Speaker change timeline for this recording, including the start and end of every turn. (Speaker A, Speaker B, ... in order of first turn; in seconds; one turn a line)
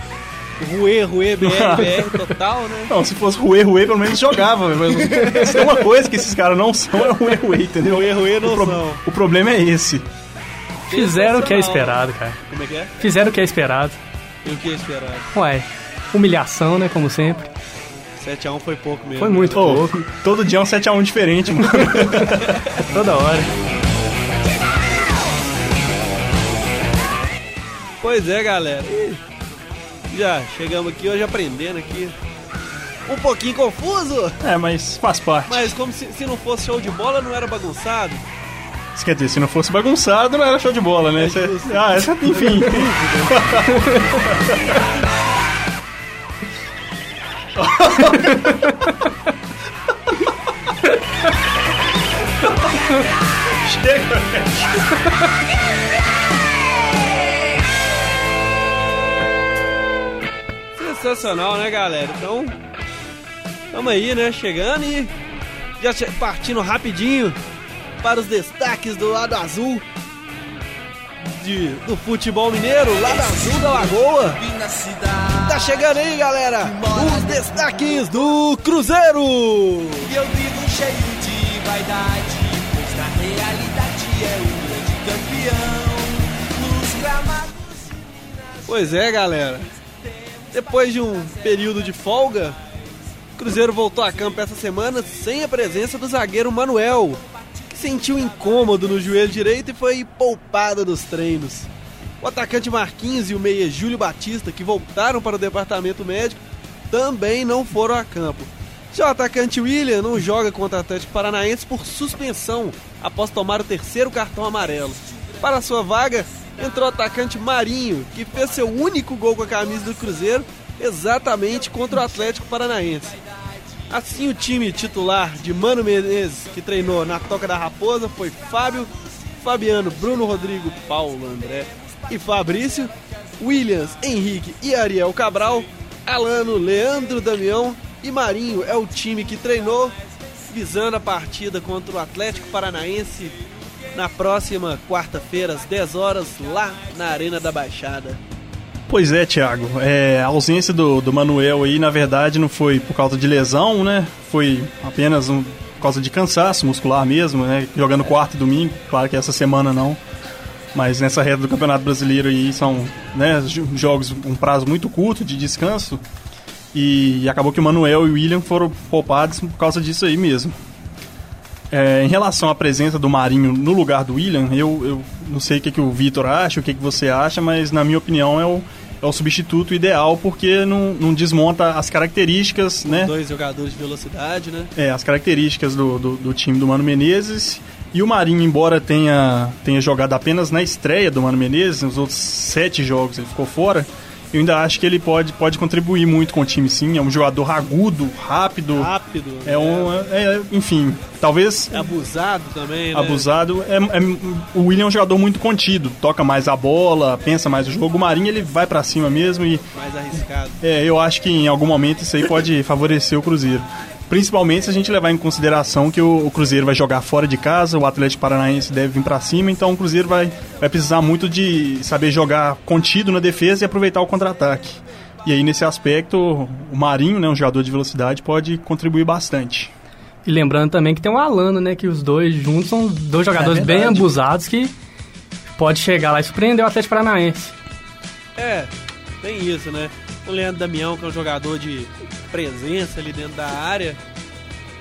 Speaker A: 0.6-3.0
Speaker B: 1.4-2.3
Speaker B: 2.9-10.1
Speaker A: 5.2-5.6
Speaker A: 7.8-9.0
Speaker A: 10.9-13.0
Speaker C: 10.9-12.4
Speaker C: 13.0-14.0
Speaker A: 14.4-15.3
Speaker C: 15.3-17.5
Speaker A: 18.2-19.6
Speaker C: 19.2-20.0
Speaker B: 19.5-22.6
Speaker C: 21.8-23.5
Speaker A: 22.4-22.8
Speaker A: 28.0-29.2
Speaker A: 30.1-32.1
Speaker A: 33.1-34.4
Speaker B: 34.4-35.7
Speaker A: 35.5-38.2
Speaker B: 39.0-44.6
Speaker A: 41.2-43.7
Speaker B: 47.6-48.8
Speaker B: 53.5-54.8
Speaker A: 60.8-62.6
Speaker A: 63.7-65.1
Speaker A: 65.8-67.4
Speaker A: 68.0-69.8
Speaker A: 71.2-74.4
Speaker D: 73.0-75.9
Speaker A: 75.4-80.1
Speaker D: 76.6-78.2
Speaker D: 80.0-88.0
Speaker A: 88.7-89.7
Speaker A: 90.5-92.6
Speaker A: 93.4-101.7
Speaker A: 102.2-123.2
Speaker A: 123.9-140.0
Speaker A: 140.5-148.2
Speaker B: 148.9-160.0
Speaker B: 160.7-166.0
Speaker B: 166.7-170.6
Speaker B: 171.7-183.1
Speaker A: 182.8-184.7
Speaker B: 184.8-198.9
Speaker A: 198.7-200.0
Speaker B: 199.4-201.9
Speaker A: 201.7-203.3
Speaker B: 202.9-209.7
Speaker A: 209.7-210.6
Speaker B: 210.6-229.7
Speaker C: 230.2-234.7
Speaker B: 233.3-234.1
Speaker C: 235.6-237.5
Speaker A: 238.4-238.7
Speaker A: 239.2-244.0